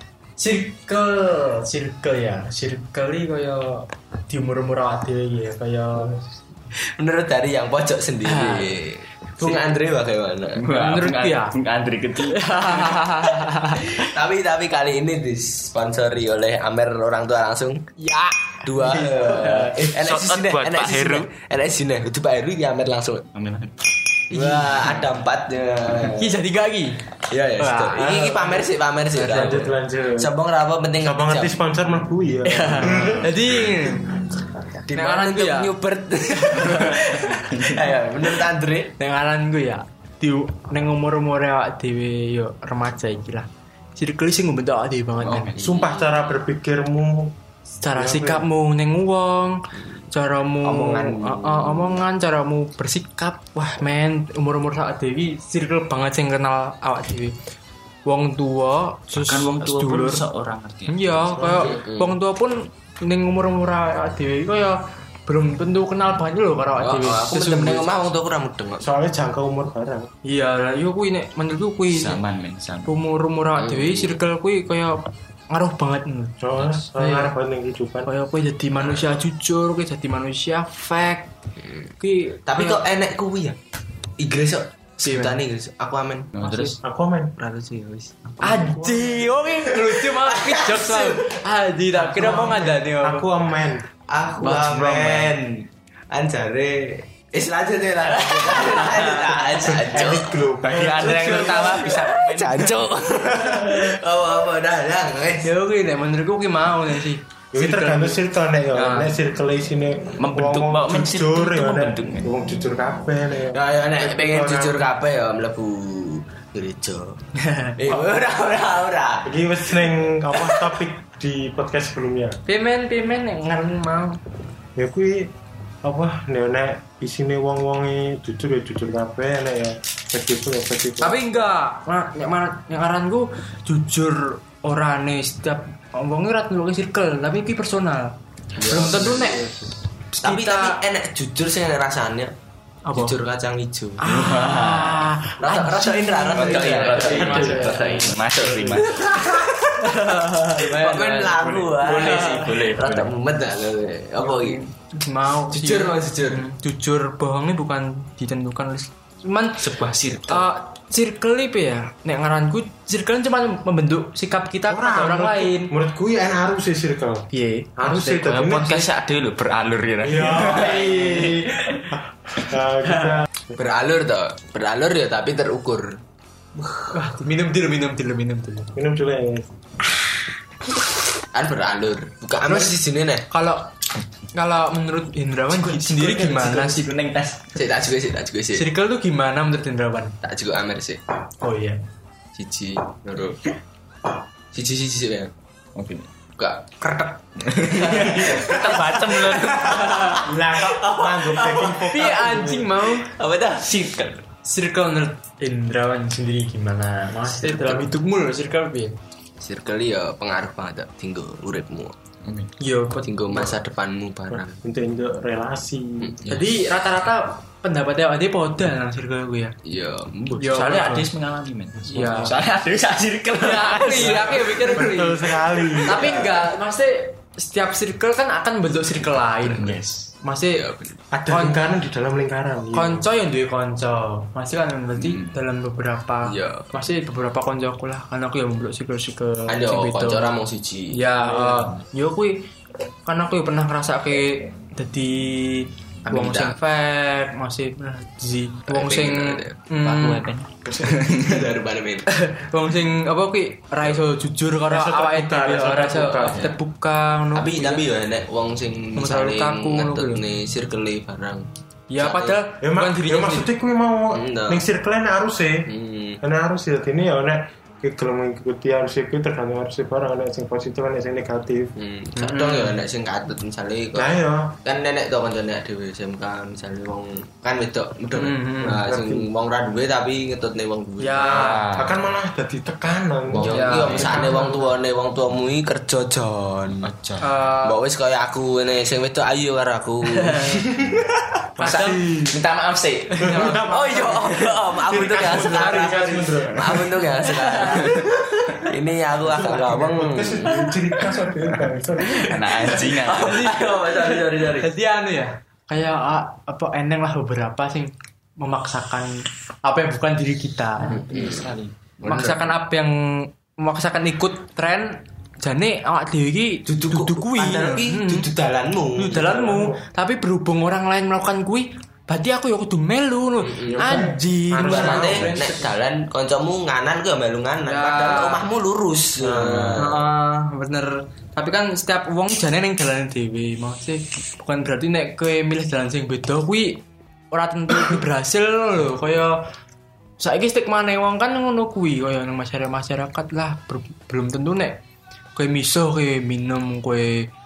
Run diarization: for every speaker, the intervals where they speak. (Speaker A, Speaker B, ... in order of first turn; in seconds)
Speaker A: 0.4-6.2, 8.2-8.8, 9.4-9.7, 10.7-11.6, 12.3-14.1, 18.0-19.8, 24.4-24.7, 26.1-27.0, 27.6-28.6, 32.5-34.1, 34.9-35.7, 36.3-37.2, 39.0-45.5, 47.8-57.4, 58.1-60.2, 60.9-67.9, 70.2-72.2, 72.9-76.3, 77.0-77.3, 78.1-81.3, 82.0-82.8, 85.0-85.4, 86.4-86.7, 88.4-93.3, 105.4-108.2, 108.7-109.2, 117.4-117.8, 122.5-124.2, 131.0-139.5, 140.1-140.8, 142.9-143.2, 144.0-148.2, 149.8-152.6, 154.2-159.7, 160.3-165.7, 167.3-168.5, 176.9-178.7, 182.4-183.7, 184.3-186.9, 188.5-190.2, 191.4-191.8, 197.8-200.2, 201.8-203.1, 204.4-209.0, 212.6-213.5, 216.3-219.6, 220.4-221.1, 221.9-222.3, 223.4-225.3, 225.9-230.7, 231.3-231.6, 232.7-240.4, 240.9-242.5, 243.1-250.3, 252.1-257.9, 259.0-260.2, 261.9-263.5, 272.2-272.8, 278.1-278.8, 281.0-281.7, 283.4-284.6, 287.2-287.8, 290.1-290.6, 291.6-292.0, 293.1-293.7, 295.0-296.4, 297.2-298.0, 303.2-311.4, 312.0-318.3, 319.0-325.7, 327.6-328.4, 329.8-339.4, 340.2-344.8, 345.4-347.3
Speaker B: 7.0-10.6, 13.9-17.8, 18.6-23.3, 24.3-26.3, 27.3-31.6, 34.7-38.9, 45.5-46.4, 50.6-52.0, 61.4-62.2, 66.8-68.9, 73.6-74.2, 78.8-79.2, 82.5-83.6, 84.2-86.3, 87.4-88.6, 89.6-91.3, 94.1-105.5, 113.4-117.2, 117.7-120.8, 138.6-139.5, 140.2-142.3, 142.9-144.0, 145.4-154.6, 155.5-156.4, 170.6-171.3, 173.5-176.0, 176.6-176.9, 181.3-183.3, 187.5-188.7, 190.2-191.0, 192.4-193.4, 194.5-195.3, 196.4-202.2, 203.0-204.2, 209.4-211.9, 213.0-214.6, 219.7-220.6, 224.0-224.4, 226.0-226.3, 230.6-231.0, 236.3-236.7, 239.5-241.0, 246.1-246.6, 248.7-249.6, 251.1-252.1, 257.4-262.4, 264.1-264.6, 265.7-266.2, 271.8-274.1, 274.6-281.5, 283.3-286.9, 287.6-291.1, 293.6-300.8, 302.2-304.7, 310.8-312.6, 316.6-319.4, 323.4-324.0, 324.6-330.1
Speaker C: 10.6-13.0, 20.0-21.3, 23.3-23.8, 37.5-37.8, 45.2-45.6, 59.1-61.4, 71.9-72.9, 86.3-86.8, 100.6-103.0, 110.2-112.3, 144.0-145.1, 146.3-149.1, 151.7-153.2, 159.6-160.5, 168.2-171.6, 185.6-187.5, 195.8-196.1, 197.5-200.2, 212.2-212.5, 220.4-224.6, 229.4-230.1, 235.0-235.3, 241.4-241.8, 249.8-251.4, 256.3-256.6, 281.3-282.1, 283.3-284.3, 286.8-287.3, 291.6-293.4, 302.2-303.6
Speaker D: 29.1-30.3, 31.0-33.4, 45.6-47.4, 47.9-48.5, 61.4-61.7, 68.8-70.1, 76.4-78.1, 86.8-87.3, 88.4-89.4, 92.0-93.9, 94.4-95.3, 99.6-101.9, 107.5-114.9, 119.2-122.4, 124.8-125.3, 125.8-131.2, 139.0-139.6, 147.2-147.9, 164.7-168.9, 170.0-173.6, 178.8-179.5, 200.2-202.8, 214.3-216.2, 224.7-226.3, 231.1-233.1, 250.7-251.1, 254.7-256.5, 262.6-265.7, 266.2-271.8, 273.9-274.6, 278.8-279.3, 281.2-284.5, 291.6-292.4, 293.2-296.9, 299.2-302.6, 319.1-319.8, 323.7-325.4, 329.2-329.8